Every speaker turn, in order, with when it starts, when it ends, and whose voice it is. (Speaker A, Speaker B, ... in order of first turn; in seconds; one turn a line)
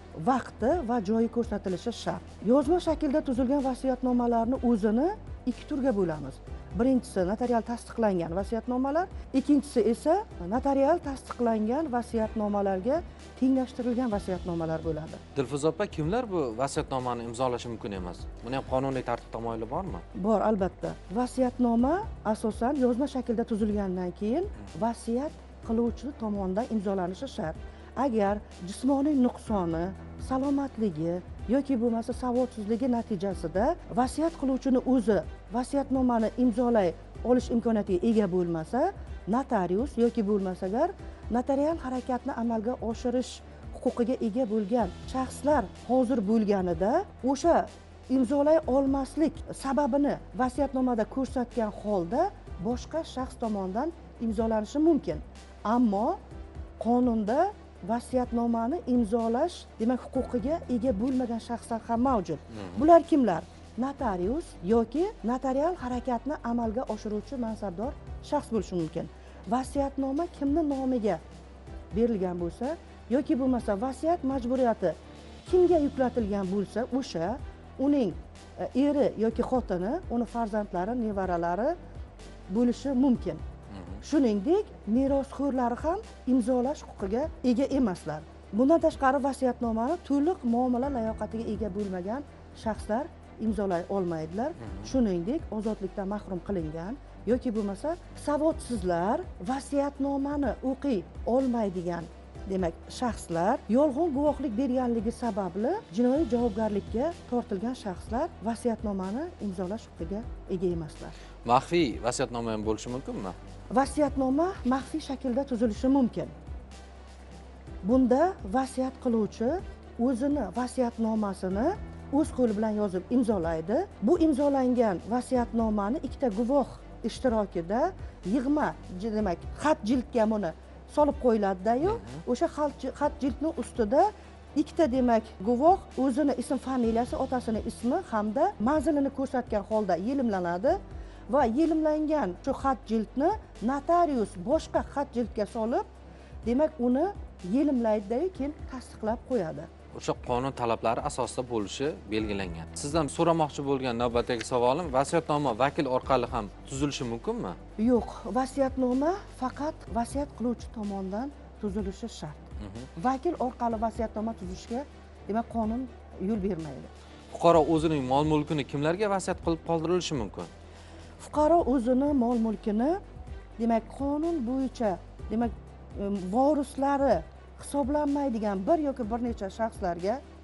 Speaker A: 0.2-15.2
Speaker B: 15.3-20.0
Speaker A: 20.1-56.2
Speaker A: 56.8-71.2
Speaker B: 62.5-62.8
Speaker A: 71.9-81.8
Speaker A: 82.5-83.4
Speaker B: 83.7-84.0
Speaker A: 84.0-111.2
Speaker B: 94.6-94.9
Speaker B: 111.5-113.4
Speaker A: 113.7-116.3
Speaker A: 117.8-145.9
Speaker B: 131.8-132.2
Speaker A: 146.4-149.7
Speaker B: 149.9-157.6
Speaker A: 157.8-162.4
Speaker B: 162.6-162.9
Speaker A: 163.0-166.9
Speaker B: 167.3-170.5
Speaker A: 171.2-173.0
Speaker A: 173.6-180.2